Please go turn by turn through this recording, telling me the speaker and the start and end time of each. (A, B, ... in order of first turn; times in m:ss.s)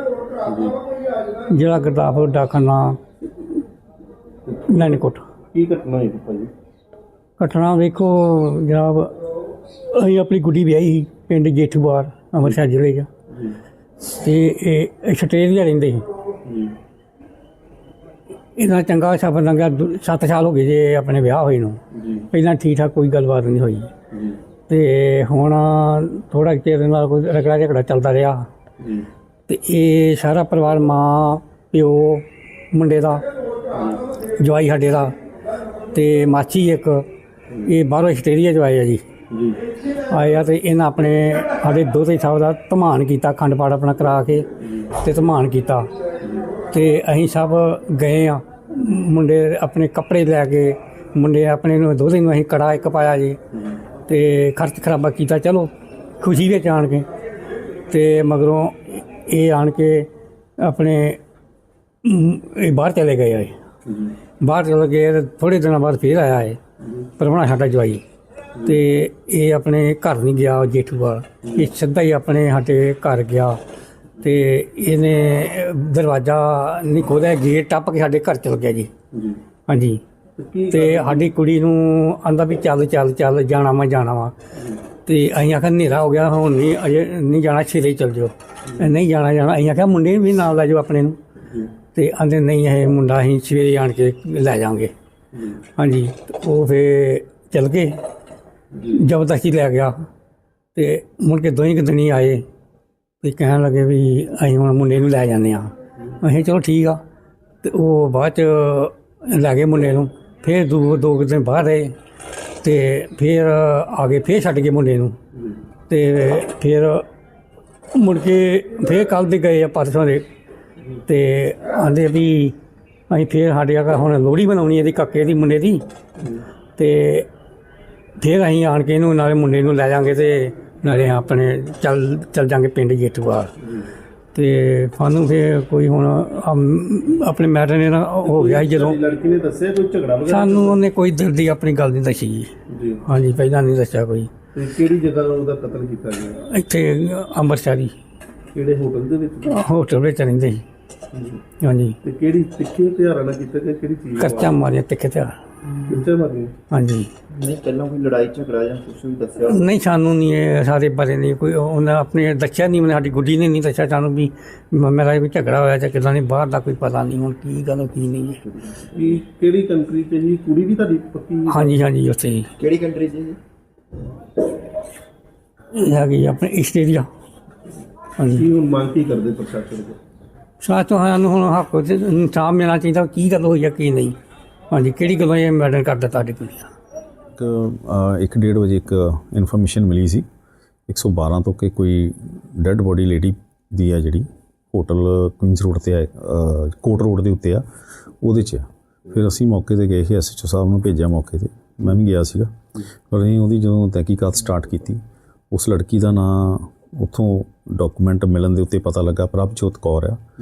0:00.4-0:00.8 A
0:01.4-0:03.0 B
0:04.6-0:05.2 B
0:05.5-0:06.5 A
0:07.4-0:13.1 B
0:13.3-0:13.6 A
0:14.0-0:16.1 B
0:16.4-0:16.8 A
0:18.6-0:21.8 B
0:21.9-0:22.3 A
0:22.3-0:23.9 B
0:24.1-0:24.4 A
0:24.7-0:28.5 B
0:28.8-0:29.1 A
0:29.5-0:33.3 B
0:33.7-0:34.0 A
0:34.2-0:35.1 B
0:35.9-0:37.1 B
0:37.6-0:39.0 B
0:39.3-0:39.6 A
0:39.9-0:45.9 B
0:46.6-0:53.4 B
0:54.1-0:57.1 B
0:57.9-1:01.2 B
1:02.0-1:03.6 B
1:03.9-1:04.1 A
1:04.4-1:06.6 B
1:07.2-1:08.0 B
1:08.6-1:13.6 B
1:11.4-1:11.7 A
1:14.2-1:18.9 B
1:19.1-1:19.4 A
1:19.7-1:20.0 B
1:20.4-1:21.3 A
1:20.7-1:24.3 B
1:24.6-1:24.8 A
1:25.0-1:31.2 B
1:31.9-1:34.9 B
1:35.3-1:35.6 A
1:35.8-1:38.0 B
1:38.9-1:40.1 B
1:40.8-1:42.4 B
1:43.2-1:47.0 B
1:47.6-1:51.9 B
1:52.6-1:55.2 B
1:55.9-1:57.1 B
1:57.9-2:00.3 B
2:01.1-2:02.6 B
2:03.1-2:05.8 B
2:06.8-2:07.3 B
2:08.2-2:13.5 B
2:14.3-2:19.0 B
2:18.2-2:20.8 A
2:20.2-2:22.5 B
2:22.7-2:23.0 A
2:23.0-2:24.3 B
2:24.6-2:26.4 A
2:26.4-2:28.0 B
2:28.5-2:29.6 A
2:29.5-2:30.6 B
2:31.1-2:31.4 A
2:31.6-2:32.0 B
2:32.0-2:34.6 A
2:34.2-2:35.4 B
2:35.8-2:36.5 A
2:36.7-2:37.1 B
2:37.3-2:39.7 C
2:39.4-2:48.4 B
2:48.9-2:51.7 A
2:51.5-2:52.5 B
2:52.6-2:53.4 C
2:55.7-2:57.1 B
2:58.2-2:58.5 B
2:58.3-3:00.0 A
3:00.6-3:04.2 B
3:04.7-3:06.7 B
3:07.4-3:10.3 D
3:10.9-3:17.6 D
3:18.2-3:22.5 D
3:23.1-3:30.2 D